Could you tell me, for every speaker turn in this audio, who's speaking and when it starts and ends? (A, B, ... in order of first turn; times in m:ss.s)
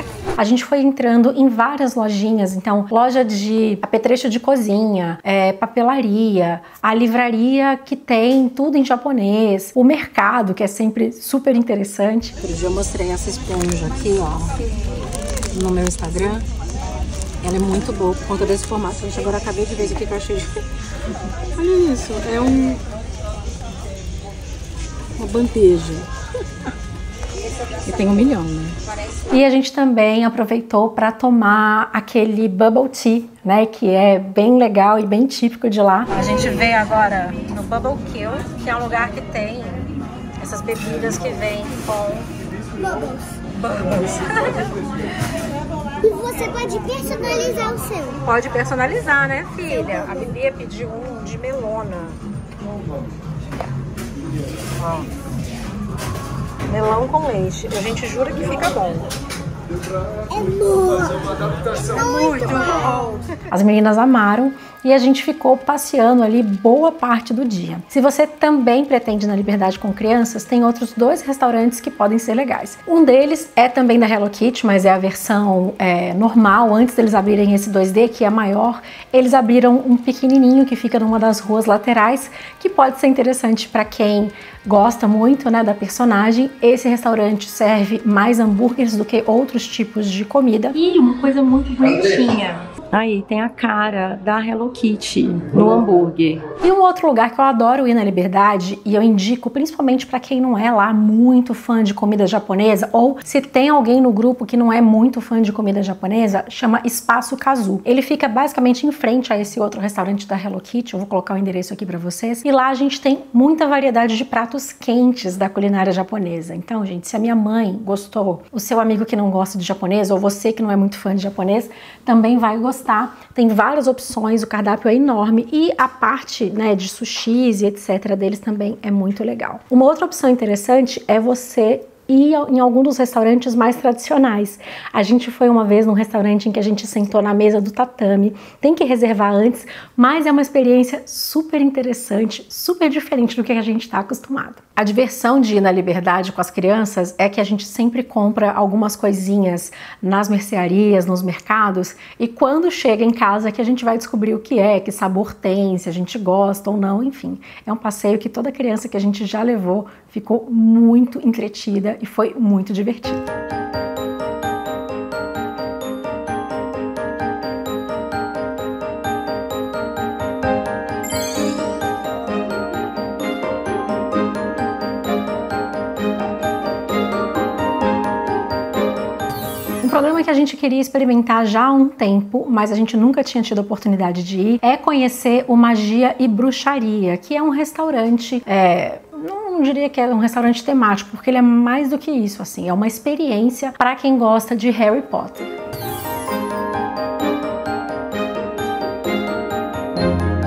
0:00.4-0:14.7 A
0:15.5-0:16.4 A
0:17.4-0:20.7 A
0:21.5-0:22.8 A
0:25.2-0:26.1 A
0:27.6-0:28.8 A
0:29.3-0:42.3 A
0:42.8-0:43.4 B
0:43.5-0:44.7 A
0:46.0-0:48.2 B
0:48.2-0:52.2 A
0:49.7-0:50.3 B
0:54.8-0:55.1 A
0:56.7-0:59.1 A
1:00.3-1:03.0 B
1:01.7-2:43.2 A
2:59.8-3:15.5 A